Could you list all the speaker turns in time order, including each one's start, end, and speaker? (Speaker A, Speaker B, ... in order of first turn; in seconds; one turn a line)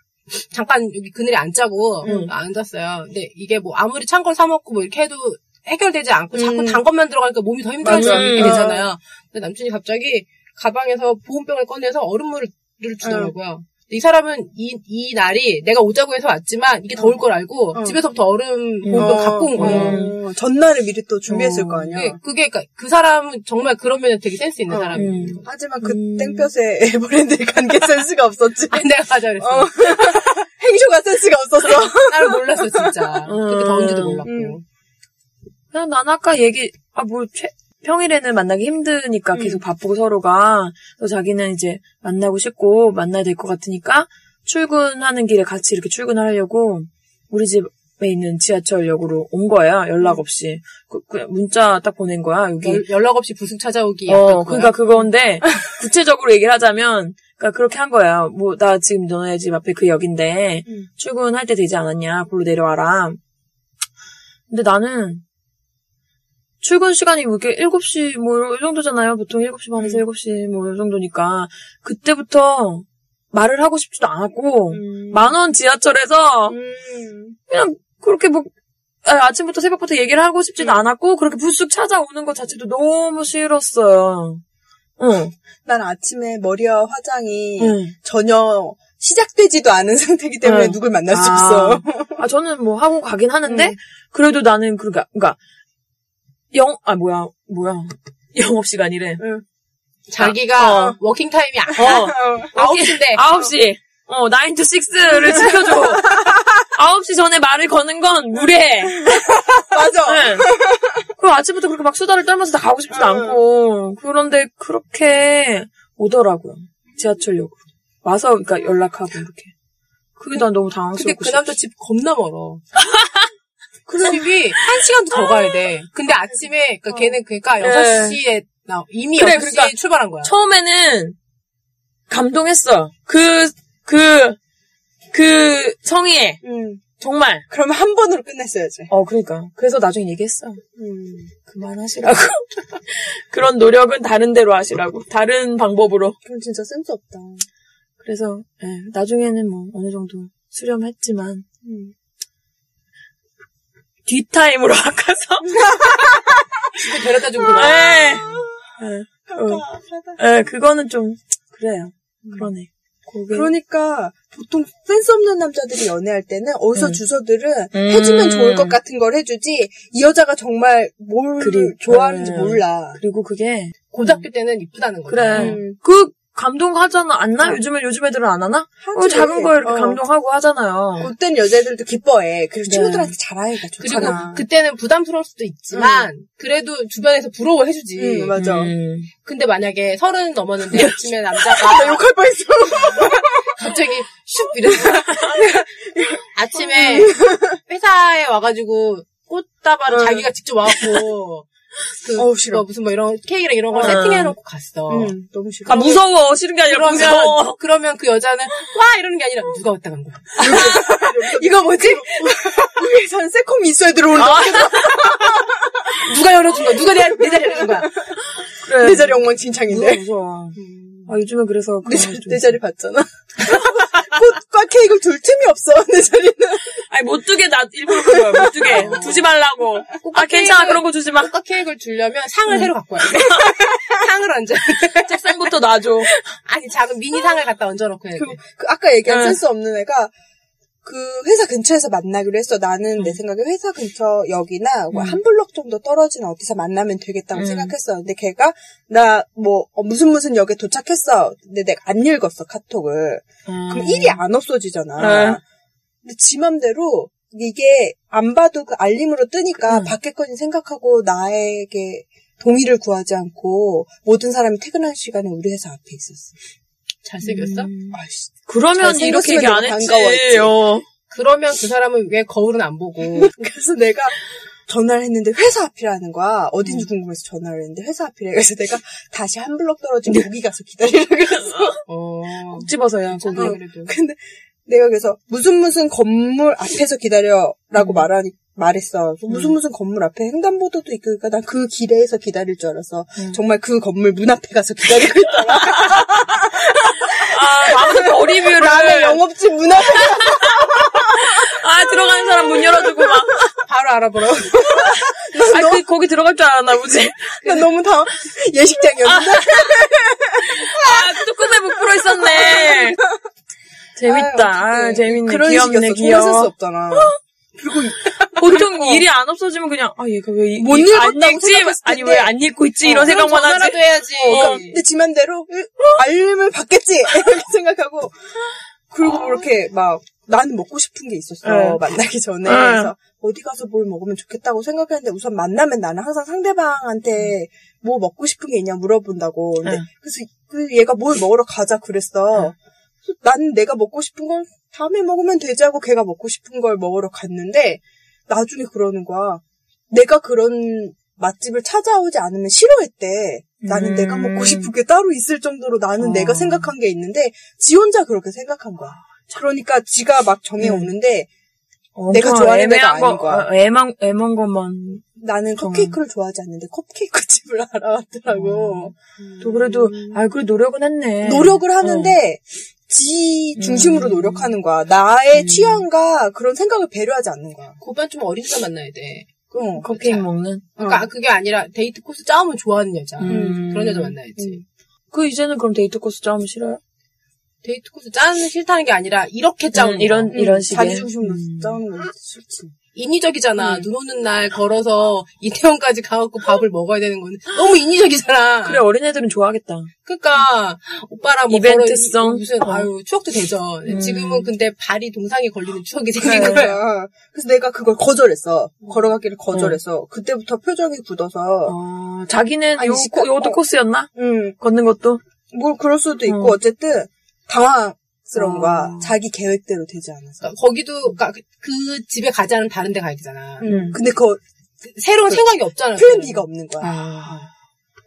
Speaker A: 0.3-20.0
Speaker B: 2.0-2.3
Speaker C: 2.0-2.3
Speaker B: 6.3-6.8
Speaker B: 7.8-8.9
Speaker C: 7.9-8.7
Speaker B: 13.0-13.3
Speaker C: 18.8-20.2
Speaker B: 18.9-22.2
Speaker C: 21.3-21.9
Speaker A: 21.4-25.5
Speaker B: 24.7-33.0
Speaker C: 25.0-26.5
Speaker A: 28.7-30.2
Speaker A: 31.8-34.6
Speaker C: 33.3-34.2
Speaker B: 34.2-34.6
Speaker C: 35.7-52.8
Speaker B: 39.3-39.6
Speaker A: 52.6-54.8
Speaker C: 54.1-63.2
Speaker C: 64.5-65.2
Speaker C: 66.6-76.6
Speaker B: 74.7-75.3
Speaker B: 76.5-77.4
Speaker C: 77.5-78.5
Speaker C: 79.0-84.4
Speaker C: 85.0-85.3
Speaker B: 85.7-92.2
Speaker C: 87.6-87.9
Speaker C: 90.4-95.4
Speaker B: 93.5-93.8
Speaker C: 96.5-99.2
Speaker A: 100.1-103.2
Speaker C: 100.2-101.0
Speaker B: 100.7-101.0
Speaker C: 101.8-109.4
Speaker B: 101.8-102.5
Speaker B: 105.3-106.5
Speaker B: 108.9-111.0
Speaker C: 110.0-110.6
Speaker C: 111.1-119.5
Speaker B: 112.9-113.4
Speaker C: 120.2-121.6
Speaker A: 120.3-122.7
Speaker C: 122.8-123.3
Speaker B: 123.9-124.2
Speaker A: 124.0-130.3
Speaker C: 127.6-128.2
Speaker C: 129.2-131.2
Speaker C: 132.1-134.4
Speaker C: 135.1-136.4
Speaker B: 136.4-136.8
Speaker C: 137.0-137.4
Speaker B: 137.5-138.9
Speaker C: 138.9-140.6
Speaker B: 140.8-141.3
Speaker C: 141.4-146.2
Speaker B: 146.2-147.4
Speaker C: 148.0-151.4
Speaker B: 151.6-151.9
Speaker C: 154.1-155.8
Speaker B: 155.5-158.7
Speaker A: 156.8-158.0
Speaker C: 157.5-159.6
Speaker B: 159.3-160.2
Speaker C: 160.2-163.5
Speaker B: 163.3-173.0
Speaker C: 166.8-167.0
Speaker C: 167.7-168.8
Speaker C: 171.4-174.2
Speaker A: 173.9-175.6
Speaker C: 175.1-181.1
Speaker B: 175.3-175.8
Speaker B: 178.8-180.0
Speaker B: 181.0-184.4
Speaker C: 182.7-183.2
Speaker A: 183.8-188.3
Speaker B: 185.7-186.1
Speaker B: 188.0-188.7
Speaker C: 188.3-189.1
Speaker A: 189.2-192.1
Speaker B: 191.5-193.7
Speaker A: 192.9-195.6
Speaker B: 194.5-197.6
Speaker A: 196.3-201.5
Speaker B: 199.9-201.0
Speaker A: 202.0-205.1
Speaker B: 202.2-202.7
Speaker B: 203.8-204.0
Speaker C: 203.8-204.3
Speaker B: 204.9-206.0
Speaker C: 205.7-207.6
Speaker A: 206.7-212.4
Speaker B: 210.4-216.1
Speaker C: 214.2-215.0
Speaker A: 216.0-217.9
Speaker B: 216.7-218.1
Speaker C: 218.6-222.6
Speaker B: 218.7-220.1
Speaker B: 221.8-226.8
Speaker C: 226.8-231.3
Speaker B: 227.9-229.1
Speaker A: 228.7-229.2
Speaker A: 230.0-235.5
Speaker C: 232.5-233.5
Speaker C: 235.0-236.1
Speaker A: 236.0-238.4
Speaker B: 238.2-240.1
Speaker C: 239.1-239.4
Speaker B: 240.8-255.4
Speaker C: 244.9-245.2
Speaker C: 247.3-247.7
Speaker C: 253.5-254.2
Speaker C: 255.0-255.4
Speaker B: 256.0-266.3
Speaker A: 267.1-267.7
Speaker C: 267.2-270.9
Speaker B: 267.9-270.6
Speaker A: 271.1-273.3
Speaker B: 273.1-281.8
Speaker C: 281.5-281.8
Speaker A: 281.9-283.9
Speaker C: 282.6-283.6
Speaker B: 283.3-303.1
Speaker C: 287.8-288.0
Speaker C: 295.5-296.0
Speaker C: 297.0-299.2
Speaker C: 299.9-303.5
Speaker A: 303.6-304.7
Speaker B: 304.5-305.9
Speaker C: 304.7-307.7
Speaker B: 307.4-313.2
Speaker C: 309.0-309.9
Speaker C: 310.4-313.0
Speaker C: 314.0-317.1
Speaker B: 314.1-319.1
Speaker C: 318.3-324.6
Speaker B: 320.6-322.4
Speaker A: 322.8-324.8
Speaker B: 324.3-328.3
Speaker B: 328.9-361.3
Speaker C: 331.4-331.8
Speaker C: 332.4-332.9
Speaker C: 353.6-354.7
Speaker C: 356.0-356.7
Speaker C: 360.6-360.9
Speaker C: 362.0-365.1
Speaker B: 362.1-363.5
Speaker B: 365.2-370.2
Speaker C: 365.6-366.0
Speaker C: 368.3-368.9
Speaker C: 369.4-372.2
Speaker B: 371.2-377.8
Speaker C: 373.6-374.5
Speaker C: 375.4-375.8
Speaker A: 377.8-380.2
Speaker B: 379.5-379.9
Speaker C: 379.8-380.7
Speaker A: 380.8-384.6
Speaker B: 380.8-381.1
Speaker C: 383.2-384.1
Speaker B: 383.3-383.6
Speaker C: 385.1-386.8
Speaker A: 387.6-391.1
Speaker C: 389.8-391.8
Speaker B: 390.3-392.7
Speaker A: 392.9-398.8
Speaker C: 398.6-399.9
Speaker A: 400.1-406.8
Speaker C: 401.5-402.9
Speaker C: 403.9-404.5
Speaker B: 406.2-411.8
Speaker C: 406.2-406.6
Speaker C: 409.5-409.8
Speaker C: 411.7-415.2
Speaker B: 412.8-413.6
Speaker B: 414.2-414.6
Speaker B: 415.5-420.5
Speaker C: 416.3-416.6
Speaker C: 418.4-419.2
Speaker A: 420.4-423.7
Speaker B: 423.6-424.4
Speaker C: 423.6-424.0
Speaker A: 424.9-426.4
Speaker B: 426.0-426.9
Speaker C: 426.8-427.5